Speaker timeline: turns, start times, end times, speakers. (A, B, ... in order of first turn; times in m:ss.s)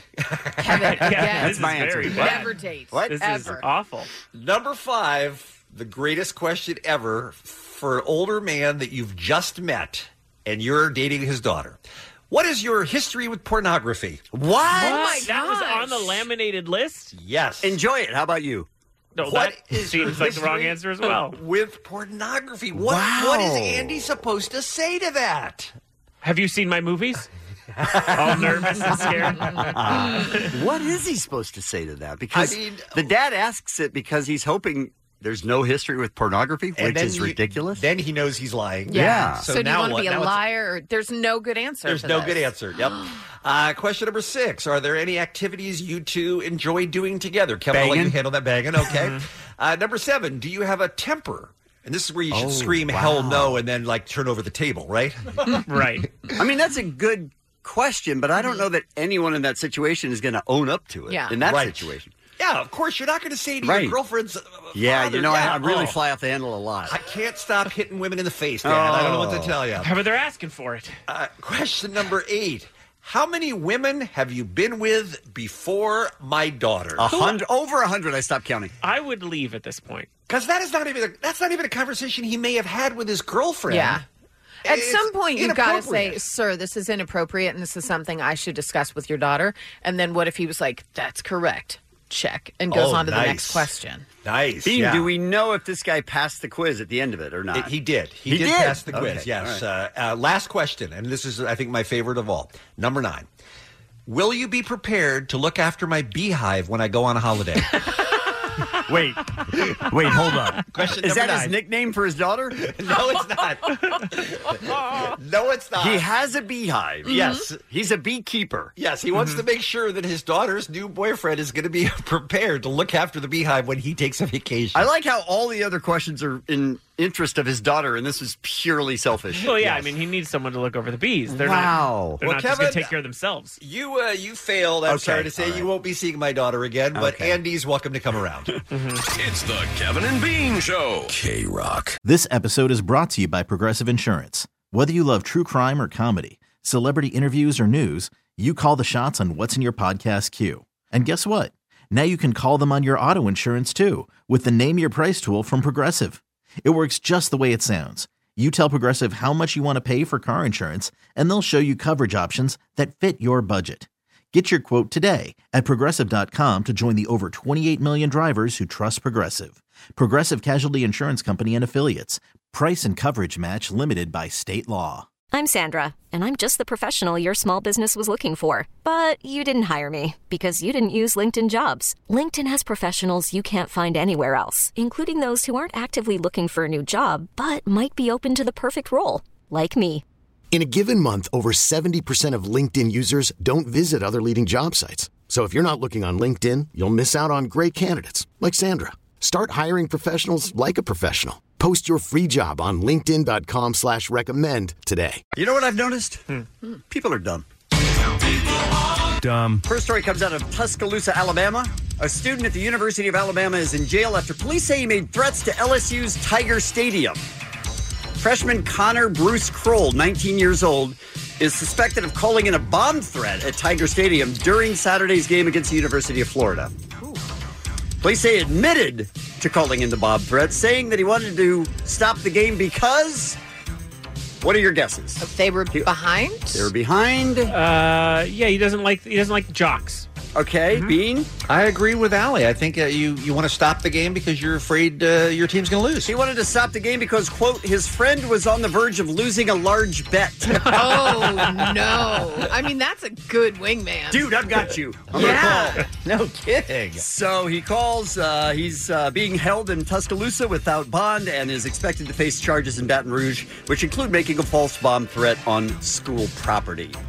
0:00.2-0:01.1 A
0:00.6-0:03.6 B
0:00.7-0:02.6 C
0:01.3-0:03.5 D
0:03.1-0:04.1 C
0:04.3-0:11.8 A
0:12.3-0:14.2 A
0:14.3-0:15.3 D
0:14.7-0:16.2 B
0:14.7-0:17.1 C
0:17.1-0:17.8 A
0:17.6-0:18.7 D
0:19.2-0:21.4 C
0:19.2-0:25.7 A
0:22.8-0:23.9 D
0:26.2-0:27.3 C
0:27.8-0:29.0 A
0:28.1-0:30.5 C
0:29.7-0:37.8 D
0:32.3-0:33.1 A
0:36.8-0:40.4 A
0:38.9-0:42.4 B
0:38.9-0:39.4 D
0:41.9-0:55.6 A
0:47.7-0:48.2 D
0:48.9-0:49.2 C
0:52.3-0:53.6 D
0:55.7-0:56.1 C
0:56.4-1:02.1 D
0:58.4-0:58.6 B
1:01.1-1:01.4 B
1:01.4-1:06.0 A
1:03.6-1:04.0 D
1:04.7-1:07.0 D
1:06.9-1:09.9 A
1:08.6-1:09.5 D
1:09.8-1:11.0 C
1:11.1-1:17.1 A
1:17.0-1:18.7 D
1:17.1-1:17.4 C
1:18.8-1:20.1 C
1:20.3-1:24.0 A
1:23.7-1:24.0 B
1:24.6-1:26.2 A
1:24.6-1:34.1 B
1:32.7-1:33.7 A
1:34.2-1:35.1 A
1:34.6-1:37.7 D
1:37.5-1:43.3 A
1:38.3-1:39.6 D
1:44.1-1:47.8 A
1:48.9-1:49.4 D
1:49.6-1:51.6 A
1:49.9-1:52.7 D
1:52.6-1:56.1 A
1:55.8-1:58.7 D
1:57.1-1:57.4 B
1:57.1-1:57.5 A
1:58.8-2:04.9 A
2:04.7-2:09.9 D
2:09.3-2:13.6 C
2:11.3-2:12.2 D
2:12.2-2:12.9 A
2:13.6-2:18.6 A
2:14.9-2:15.7 D
2:17.0-2:17.4 D
2:18.7-2:19.0 C
2:19.1-2:22.0 E
2:22.0-2:55.1 F
2:55.3-3:10.0 G
3:10.5-3:25.2 H
3:25.4-3:26.2 D
3:26.9-3:27.5 D
3:29.6-3:37.3 D
3:38.2-3:46.7 D
3:48.0-3:53.4 D
3:54.4-3:55.9 D
3:55.2-3:56.7 B
3:56.5-3:57.5 D
3:57.5-4:00.1 C
4:00.4-4:01.3 D
4:01.5-4:06.1 A
4:06.0-4:11.2 D
4:10.6-4:14.3 B
4:14.1-4:15.8 D
4:15.1-4:17.0 A
4:15.1-4:15.8 B
4:17.0-4:27.0 D